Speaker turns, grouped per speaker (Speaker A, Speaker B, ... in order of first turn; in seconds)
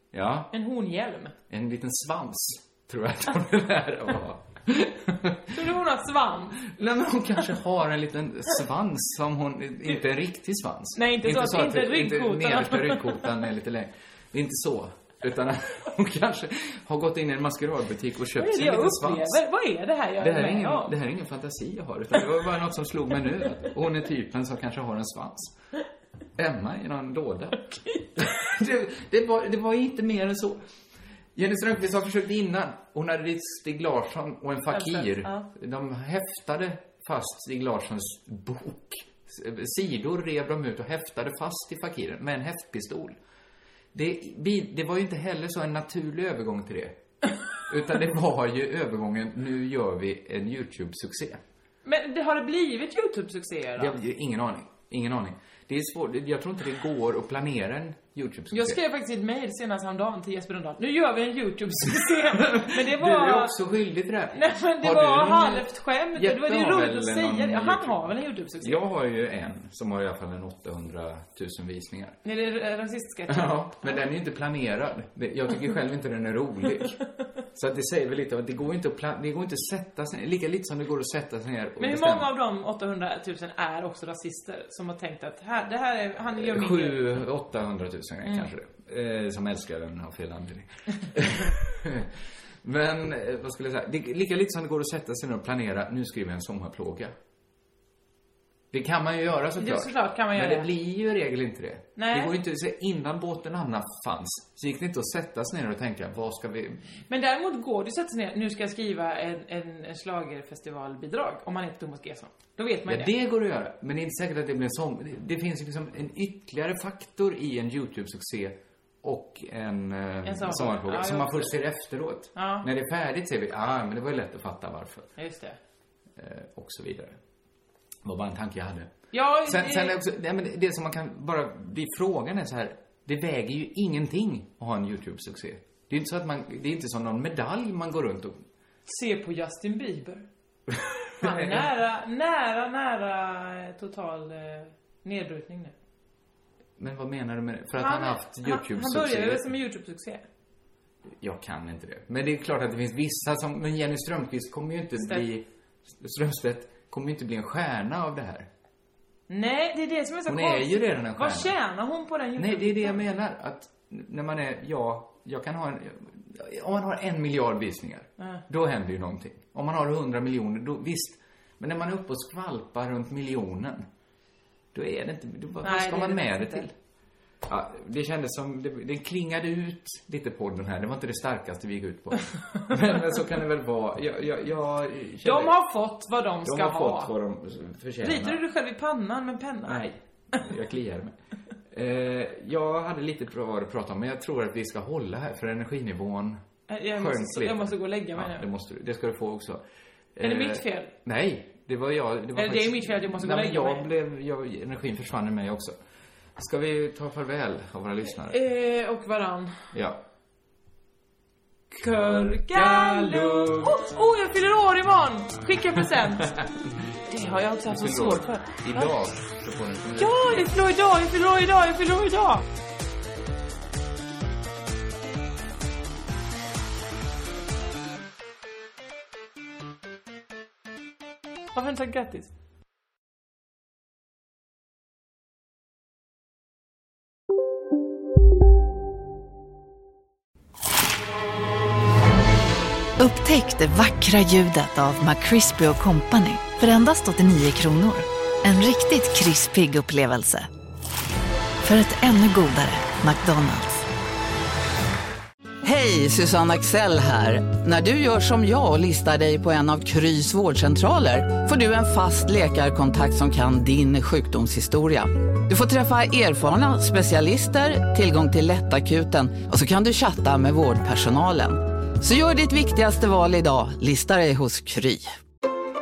Speaker A: 0.1-0.5, 1.5-5.6, 6.6-19.4, 20.2-25.5, 26.4-30.6, 31.3-43.2, 43.9-47.0, 47.7-51.4, 53.8-58.8, 62.2-72.2, 73.3-77.0, 77.5-82.3, 86.3-97.1, 98.7-106.8, 112.8-125.1, 126.2-127.2, 128.0-128.9, 129.4-138.4, 141.2-141.7, 146.8-149.5, 151.2-158.5, 160.3-161.5, 162.3-173.8, 174.7-176.7, 177.4-185.6, 186.4-188.4, 189.6-191.2, 191.7-196.4, 196.9-199.6, 200.1-205.8, 206.3-208.4, 209.7-210.0, 212.5-213.8, 215.8-216.7, 217.7-220.5
Speaker B: 0.5-1.3, 5.5-6.6, 10.9-13.2, 18.4-20.9, 34.7-35.4, 51.8-54.0, 58.5-63.5, 64.3-68.8, 72.2-74.0, 81.8-87.0, 99.6-100.7, 102.0-102.3, 107.1-113.1, 120.2-121.6, 122.3-122.7, 125.2-125.6, 129.1-130.0, 138.9-140.2, 141.2-145.7, 147.8-150.2, 159.3-163.0, 175.6-176.7, 185.2-187.1, 188.0-189.8, 196.7-198.5, 200.2-200.9, 202.3-203.9, 208.3-209.7, 211.7-216.3, 217.1-218.9, 220.0-222.4, 231.5-232.3
Speaker C: 243.0-250.5, 251.6-253.8
Speaker D: 255.6-275.1